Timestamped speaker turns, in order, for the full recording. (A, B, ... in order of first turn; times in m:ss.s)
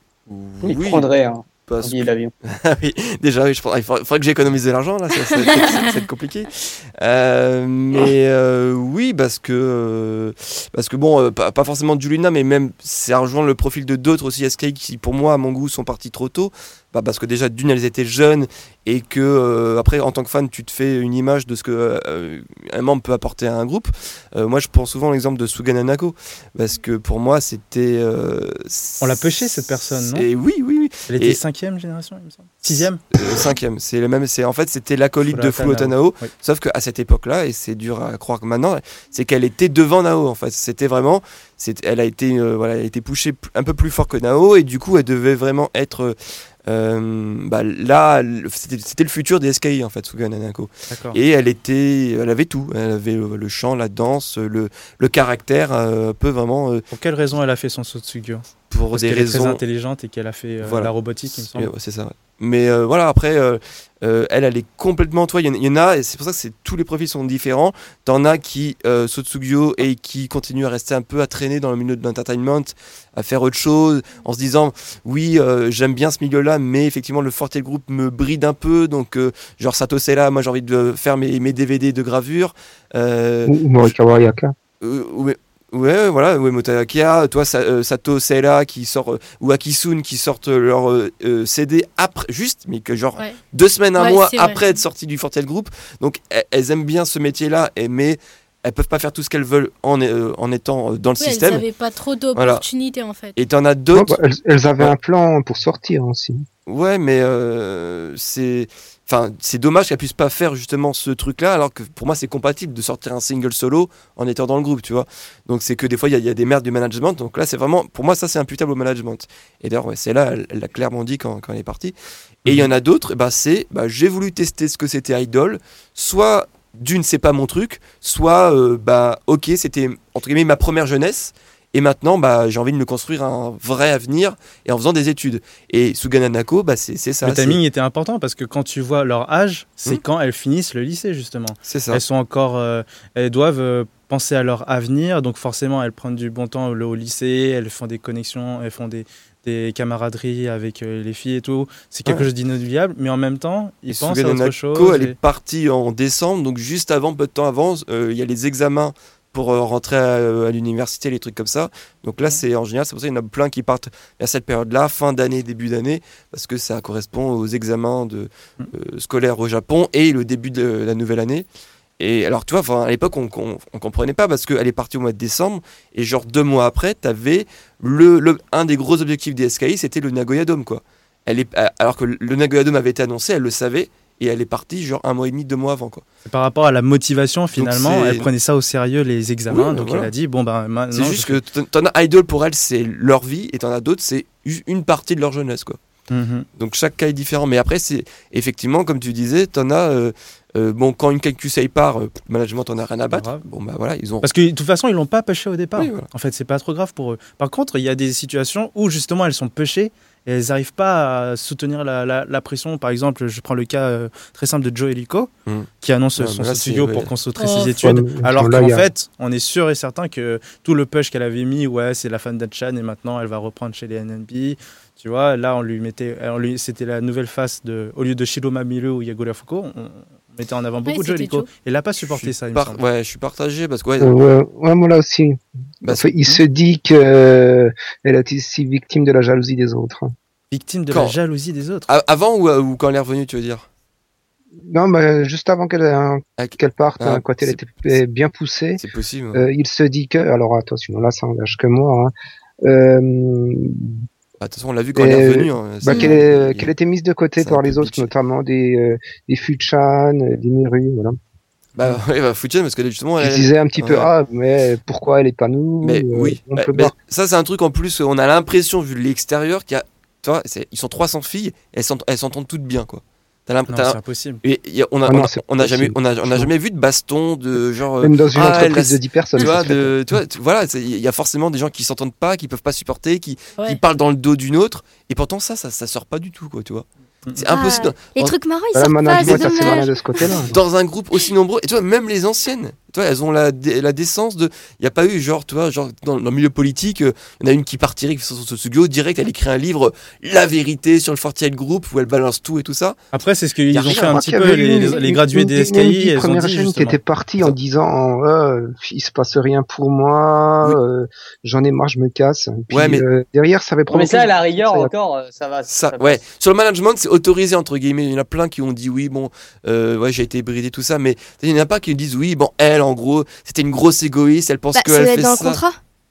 0:00.3-0:01.1 A
0:00.6-0:02.3 B
0:01.7-0:31.4 A
0:29.0-0:30.3 C
0:31.1-0:33.0 C
0:32.7-0:56.8 A
0:35.2-0:36.3 C
0:50.9-0:51.2 C
0:56.9-1:01.7 C
0:58.7-0:59.6 A
1:00.6-1:23.9 A
1:23.5-1:24.5 D
1:24.8-1:41.6 A
1:34.0-1:34.6 E
1:41.2-1:43.4 E
1:42.3-1:42.6 A
1:43.4-1:44.2 A
1:43.9-1:46.4 D
1:46.7-2:17.6 A
2:17.2-2:35.2 C
2:21.7-2:22.0 A
2:33.9-2:51.5 A
2:52.0-3:06.0 A
3:06.2-3:11.4 C
3:07.6-3:08.3 A
3:09.5-3:10.1 A
3:10.9-3:15.8 A
3:16.1-3:16.5 C
3:16.6-3:24.3 A
3:23.1-3:23.4 C
3:24.2-3:35.3 C
3:25.8-3:26.1 A
3:35.5-3:37.1 A
3:35.8-3:52.8 C
3:37.4-3:37.8 E
3:37.8-3:38.9 D
3:50.8-3:51.5 E
3:52.1-3:54.1 A
3:54.0-4:00.1 D
3:55.8-3:56.4 A
4:00.5-4:01.9 C
4:00.9-4:01.2 A
4:01.9-4:03.6 A
4:04.7-4:08.8 D
4:06.4-4:08.0 A
4:08.8-4:09.4 A
4:09.3-4:12.1 D
4:12.6-4:14.0 D
4:14.4-4:16.7 A
4:14.9-4:21.2 D
4:15.9-4:16.2 F
4:17.4-4:18.1 A
4:21.8-4:24.1 A
4:23.2-4:26.9 D
4:25.8-4:48.3 A
4:33.7-4:34.4 C
4:35.1-4:36.5 D
4:38.0-4:39.9 D
4:47.5-4:50.3 F
4:48.7-4:50.6 D
4:49.1-5:03.0 A
5:03.1-5:07.0 C
5:03.7-5:04.2 A
5:03.8-5:14.9 D
5:12.7-5:13.0 A
5:13.9-5:16.2 B
5:15.7-5:25.6 A
5:24.7-5:25.8 F